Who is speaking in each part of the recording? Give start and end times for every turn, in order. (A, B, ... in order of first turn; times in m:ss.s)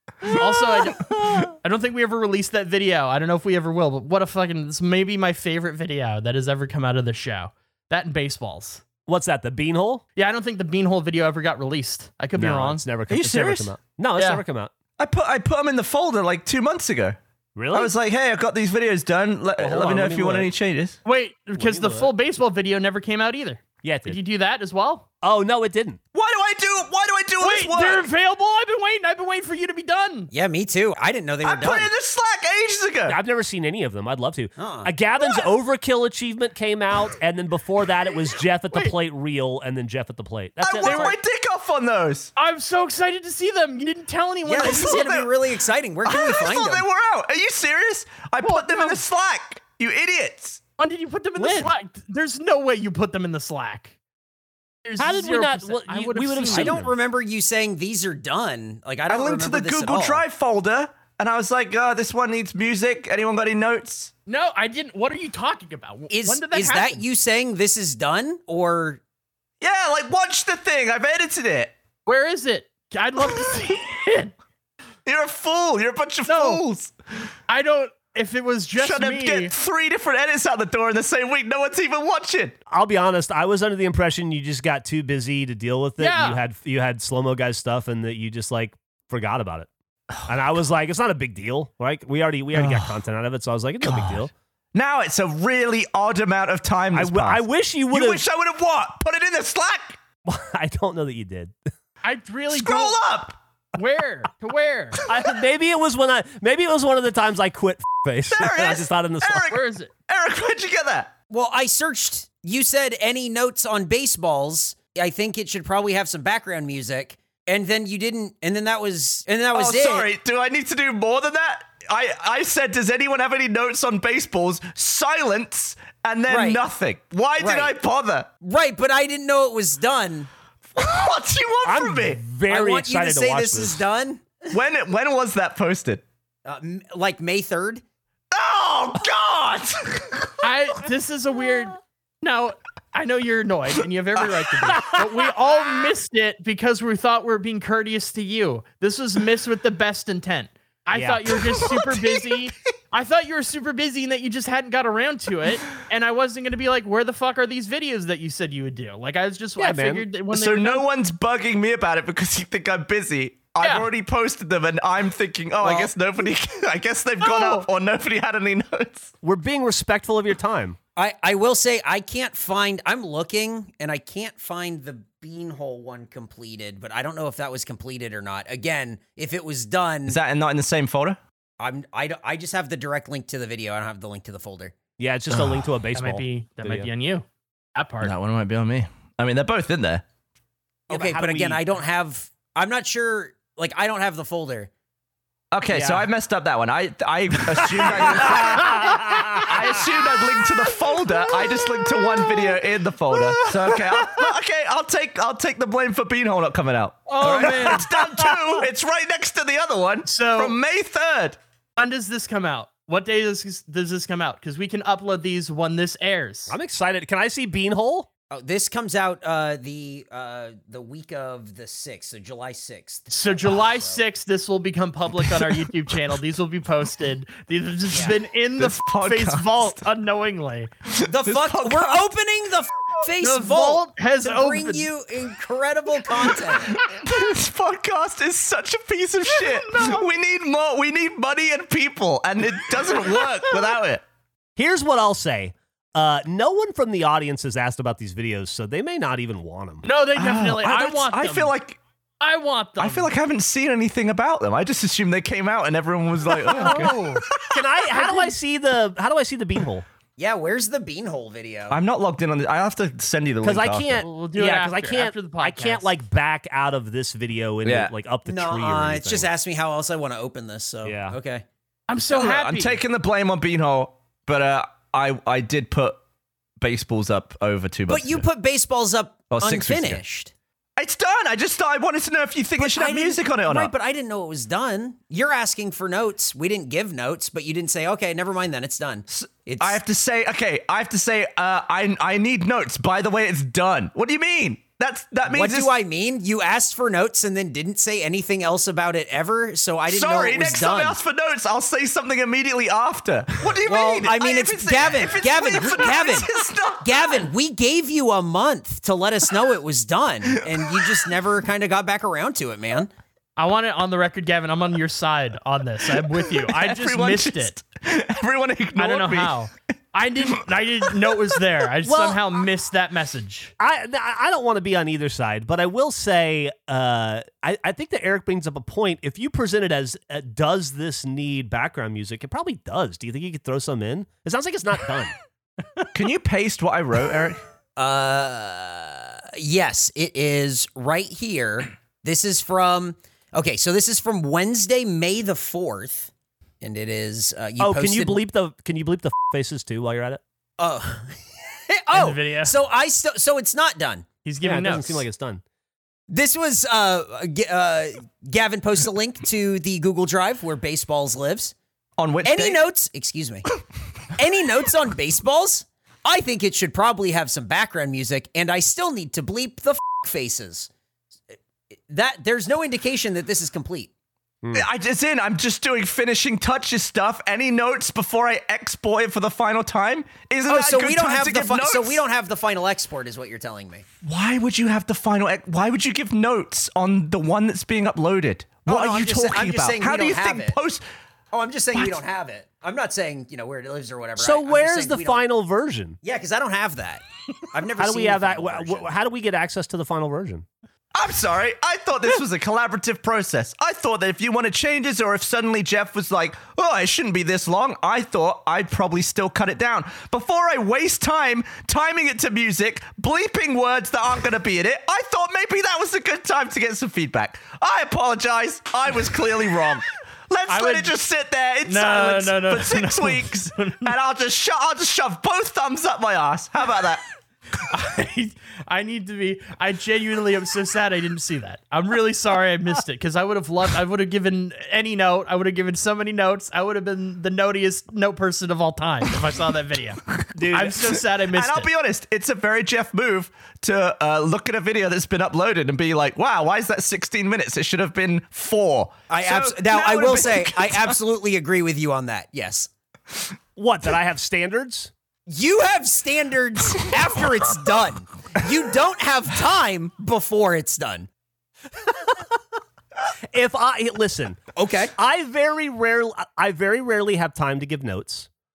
0:00.2-0:08.8 A
0:09.1-0:10.0 B
0:10.2-0:12.9 A
0:12.4-0:14.7 B
0:13.1-0:13.8 C
0:14.2-0:14.4 A
0:15.0-0:17.2 C
0:17.6-0:17.9 B
0:17.7-0:21.0 C
0:19.6-0:20.5 B
0:21.0-0:25.0 A
0:21.6-0:22.1 B
0:23.8-0:24.2 B
0:25.2-0:26.0 B
0:26.1-0:28.1 C
0:27.4-0:30.3 A
0:30.3-0:31.9 D
0:31.4-0:33.2 C
0:33.1-0:41.2 B
0:34.6-0:34.9 D
0:40.6-0:42.3 C
0:40.7-0:41.2 A
0:42.4-0:45.0 A
0:44.5-0:46.8 D
0:44.6-0:45.3 C
0:46.0-0:50.6 C
0:48.4-0:49.0 A
0:50.8-0:53.9 A
0:51.4-0:51.7 B
0:54.8-0:56.8 A
0:55.0-0:57.0 B
0:56.5-1:00.2 D
0:59.1-1:04.1 C
1:04.3-1:07.0 A
1:06.1-1:09.0 D
1:09.6-1:11.7 C
1:12.1-1:14.3 A
1:15.1-1:16.9 C
1:16.3-1:16.6 A
1:17.5-1:19.5 A
1:18.8-1:22.6 C
1:22.7-1:29.7 B
1:26.0-1:26.4 A
1:30.3-1:34.3 B
1:32.6-1:32.9 C
1:33.8-1:40.0 C
1:36.9-1:38.2 B
1:40.3-1:41.6 B
1:42.0-1:43.0 A
1:42.5-1:43.4 C
1:43.8-1:45.0 A
1:45.1-1:49.5 B
1:48.3-1:51.1 C
1:49.5-1:49.9 A
1:51.3-2:00.1 D
1:59.5-2:08.3 C
2:06.3-2:06.6 D
2:07.4-2:07.7 D
2:08.4-2:10.3 D
2:10.8-2:12.2 C
2:11.6-2:13.9 B
2:12.5-2:14.4 D
2:14.5-2:16.0 C
2:16.5-2:17.8 D
2:18.3-2:20.3 C
2:20.4-2:40.8 A
2:30.9-2:31.3 B
2:39.6-2:40.0 B
2:40.3-2:49.1 C
2:43.6-2:43.9 A
2:45.6-2:45.9 D
2:47.2-2:47.7 A
2:49.2-2:50.8 B
2:51.0-3:00.2 D
3:00.1-3:01.2 C
3:01.6-3:04.8 D
3:05.0-3:06.9 B
3:05.9-3:08.1 A
3:08.0-3:10.0 C
3:10.9-3:14.7 D
3:10.9-3:11.6 B
3:15.5-3:31.4 C
3:15.7-3:16.1 B
3:17.6-3:19.6 B
3:27.1-3:27.9 A
3:27.2-3:28.3 B
3:30.1-3:30.6 A
3:31.8-3:36.5 A
3:36.5-3:38.1 B
3:38.3-3:44.0 D
3:43.1-3:50.7 A
3:47.9-3:48.2 D
3:48.6-3:49.8 C
3:50.9-3:52.1 C
3:51.0-3:56.8 D
3:53.2-3:54.9 A
3:56.7-4:04.0 C
4:04.6-4:09.9 B
4:09.8-4:11.5 A
4:10.2-4:11.8 C
4:12.2-4:13.1 A
4:12.8-4:17.6 C
4:16.5-4:17.2 A
4:16.5-4:19.9 B
4:20.2-4:21.8 D
4:21.7-4:24.0 C
4:23.4-4:29.3 B
4:24.0-4:25.9 A
4:27.6-4:27.9 C
4:28.2-4:31.4 D
4:30.8-4:31.2 B
4:31.9-4:32.8 A
4:32.1-4:36.0 C
4:36.6-4:38.2 C
4:37.9-4:40.3 D
4:39.3-4:40.0 C
4:40.8-4:43.7 C
4:42.6-4:49.8 D
4:49.1-4:55.7 C
4:55.3-5:01.0 D
4:59.9-5:07.3 C
5:03.6-5:06.3 D
5:06.8-5:12.9 D
5:13.4-5:17.6 A
5:16.2-5:19.4 C
5:18.8-5:23.5 A
5:21.8-5:22.2 B
5:23.6-5:35.1 B
5:35.9-5:37.4 C
5:37.8-5:48.2 D
5:47.6-5:50.2 B
5:50.6-5:54.1 D
5:51.9-5:52.6 A
5:54.2-5:55.1 A
5:54.4-5:55.4 B
5:56.1-6:01.6 D
6:02.0-6:02.6 C
6:02.2-6:03.4 D
6:04.2-6:10.7 D
6:11.9-6:13.9 D
6:14.5-6:22.0 C
6:20.5-6:23.8 D
6:24.0-6:30.8 C
6:28.7-6:30.6 D
6:31.3-6:35.2 D
6:31.7-6:32.0 C
6:34.2-6:36.0 B
6:36.0-6:38.9 D
6:37.8-6:40.5 B
6:40.9-7:07.0 C
7:00.5-7:00.9 A
7:01.7-7:03.9 A
7:07.7-7:21.7 A
7:20.3-7:20.9 B
7:21.3-7:31.0 C
7:29.1-7:32.7 D
7:33.6-7:34.9 B
7:35.3-7:41.1 D
7:43.3-7:44.4 B
7:44.6-7:44.9 D
7:45.0-7:48.3 B